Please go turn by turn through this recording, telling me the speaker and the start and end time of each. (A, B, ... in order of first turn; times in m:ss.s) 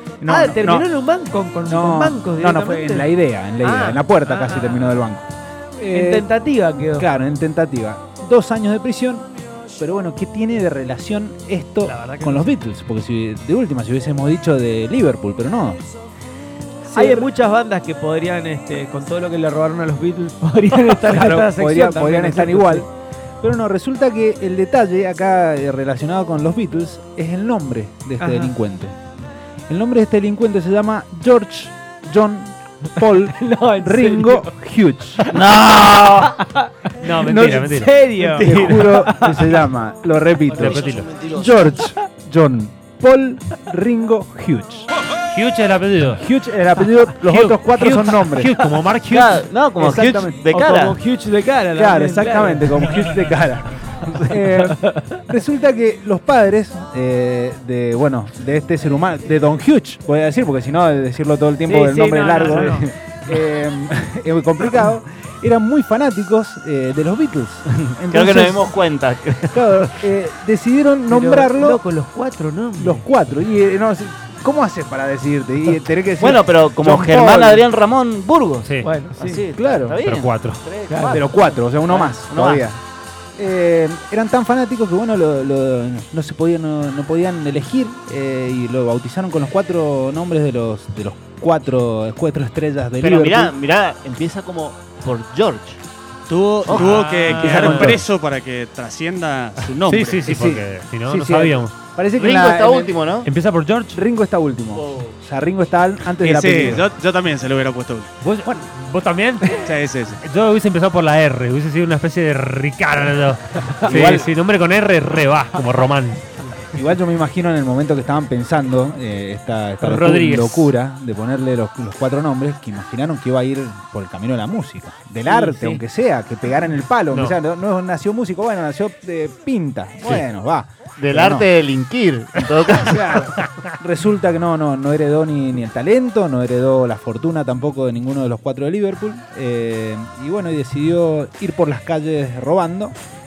0:00.2-0:00.9 A
0:00.2-0:04.9 B
0:01.6-0:06.3 A
0:05.9-0:07.1 B
0:07.0-0:09.3 A
0:09.8-0:15.8 A
0:11.8-0:12.5 B
0:16.8-0:17.3 A
0:16.9-0:22.8 B
0:20.8-0:22.9 A
0:23.4-0:29.0 A
0:28.2-0:28.5 B
0:29.7-0:35.2 A
0:33.3-0:34.5 B
0:35.3-0:36.4 C
0:36.4-0:39.5 B
0:37.0-0:37.9 D
0:37.3-0:37.7 A
0:38.2-0:44.9 A
0:40.5-0:41.2 D
0:40.6-0:41.4 C
0:45.3-0:46.2 D
0:46.2-0:48.5 A
0:47.2-0:49.5 D
0:49.0-0:51.0 C
0:49.8-0:50.4 A
0:50.5-0:52.7 B
0:51.7-1:08.8 A
0:54.3-0:55.0 B
1:01.6-1:02.9 B
1:07.8-1:09.8 C
1:09.5-1:11.8 A
1:11.1-1:13.0 B
1:12.8-1:17.6 A
1:16.2-1:22.6 C
1:18.6-1:19.0 D
1:18.8-1:19.4 B
1:19.5-1:20.0 A
1:20.0-1:20.6 D
1:20.9-1:21.2 B
1:21.1-1:22.8 A
1:23.4-1:33.5 A
1:33.0-1:35.8 C
1:36.3-1:40.4 E
1:36.6-1:37.1 C
1:36.8-1:38.0 D
1:37.3-1:38.0 A
1:39.8-1:41.8 D
1:40.3-1:42.9 A
1:42.2-1:43.3 C
1:43.2-1:44.0 D
1:43.9-1:46.9 A
1:44.7-1:45.1 C
1:46.2-1:48.1 E
1:48.2-1:49.7 D
1:49.6-1:50.2 E
1:50.2-1:56.2 D
1:53.8-1:54.3 A
1:56.7-2:11.5 A
1:59.8-2:00.7 D
2:05.2-2:05.8 B
2:11.0-2:13.2 C
2:12.9-2:22.9 A
2:13.3-2:13.6 D